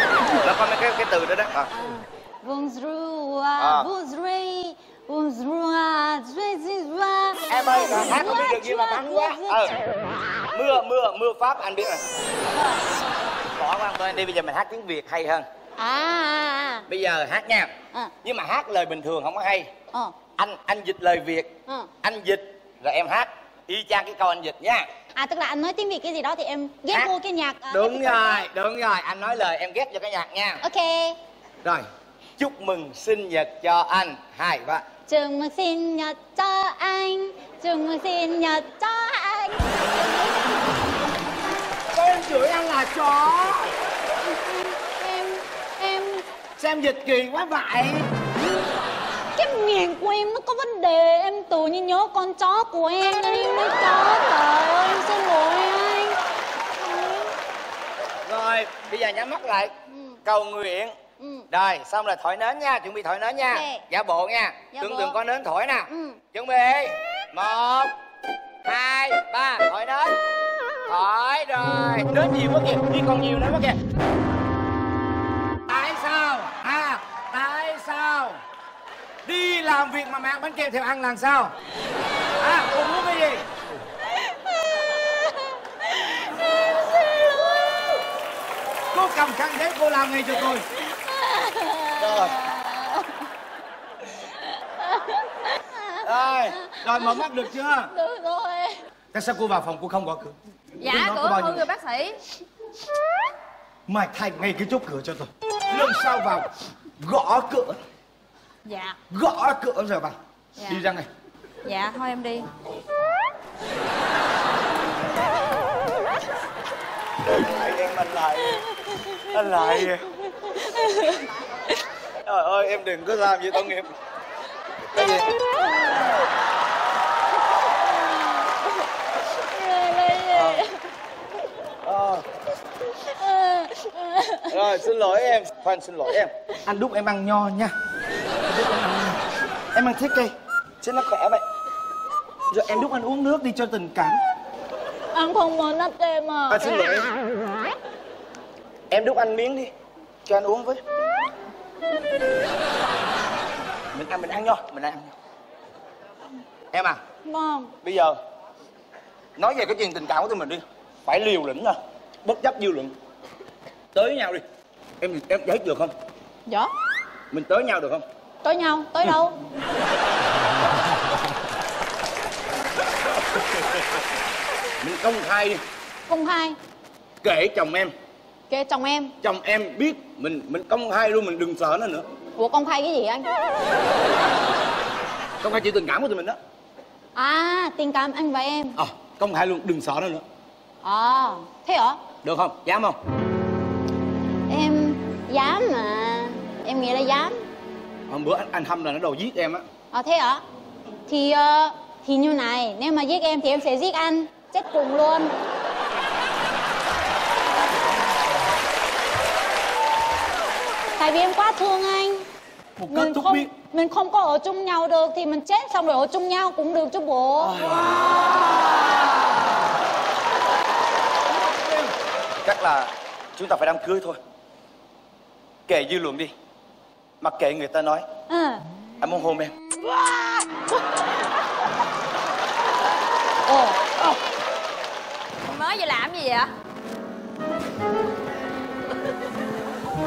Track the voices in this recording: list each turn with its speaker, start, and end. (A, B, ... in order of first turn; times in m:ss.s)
0:00.4-0:01.7 A
0:01.7-0:09.8 B
0:03.6-0:03.9 A
0:07.5-0:09.8 A
0:10.5-0:12.0 A
0:12.5-0:12.8 B
0:13.6-0:15.4 A
0:15.8-0:16.9 B
0:16.9-0:17.7 A
0:18.2-0:19.7 A
0:20.4-0:24.9 A
0:25.1-0:28.5 B
0:27.7-0:30.6 A
0:30.6-0:31.2 B
0:32.4-0:34.8 A
0:35.1-0:40.4 B
0:41.9-0:43.7 A
0:44.2-0:46.2 B
0:46.6-0:48.1 A
0:49.3-0:56.2 B
0:56.8-0:57.3 B
0:58.2-0:59.7 A
0:59.9-1:00.2 B
1:00.2-1:00.9 A
1:01.2-1:01.4 B
1:01.5-1:07.9 A
1:03.5-1:03.8 B
1:04.7-1:05.2 B
1:05.9-1:06.2 B
1:08.6-1:10.2 A
1:10.8-1:13.8 A
1:15.7-1:18.4 A
1:19.2-1:21.5 A
1:22.4-1:23.5 A
1:24.3-1:26.3 B
1:27.0-1:27.2 B
1:28.9-1:30.6 A
1:31.0-1:33.2 B
1:32.0-1:32.4 A
1:34.8-1:37.2 B
1:36.0-1:37.9 A
1:37.9-1:38.8 B
1:39.1-1:41.7 A
1:40.8-1:42.2 C
1:43.9-1:46.5 A
1:47.0-1:47.8 A
1:48.6-1:49.0 C
1:49.1-1:51.1 A
1:50.6-1:50.8 C
1:51.6-1:52.5 C
1:57.3-2:00.1 A
2:00.6-2:01.2 B
2:02.2-2:03.9 A
2:04.9-2:05.3 A
2:05.6-2:06.2 B
2:07.7-2:10.8 B
2:10.3-2:10.6 A
2:11.8-2:12.2 A
2:13.0-2:14.6 B
2:14.5-2:17.7 A
2:18.4-2:19.2 A
2:19.7-2:21.4 A
2:22.5-2:24.2 A
2:25.1-2:26.7 B
2:26.5-2:27.1 A
2:28.9-2:29.7 A
2:30.2-2:30.8 A
2:33.9-2:35.1 A
2:36.7-2:37.0 A
2:37.2-2:37.7 B
2:37.8-2:38.2 A
2:39.4-2:42.9 A
2:43.9-2:44.4 A
2:45.0-2:45.9 A
2:46.5-2:46.7 B
2:47.3-2:48.0 A
2:48.4-2:49.3 B
2:54.8-2:55.6 A
2:56.1-2:56.6 B
2:57.2-2:57.9 A
2:58.5-2:59.1 B
2:59.2-3:02.1 A
3:02.4-3:03.3 B
3:05.4-3:06.4 A
3:07.2-3:08.8 B
3:08.8-3:10.2 A
3:10.8-3:12.0 B
3:12.2-3:13.0 A
3:14.5-3:17.4 B
3:18.1-3:19.6 A
3:19.9-3:20.4 B
3:21.1-3:25.3 B
3:31.0-3:32.3 B
3:32.8-3:33.5 A
3:32.9-3:37.6 B
3:37.4-3:38.8 A
3:41.4-3:41.9 A
3:42.4-3:44.2 A
3:45.7-3:46.3 A
3:47.2-3:48.1 A
3:48.3-3:48.6 B
3:49.0-3:49.5 A
3:53.4-3:53.8 B
3:55.4-3:56.5 C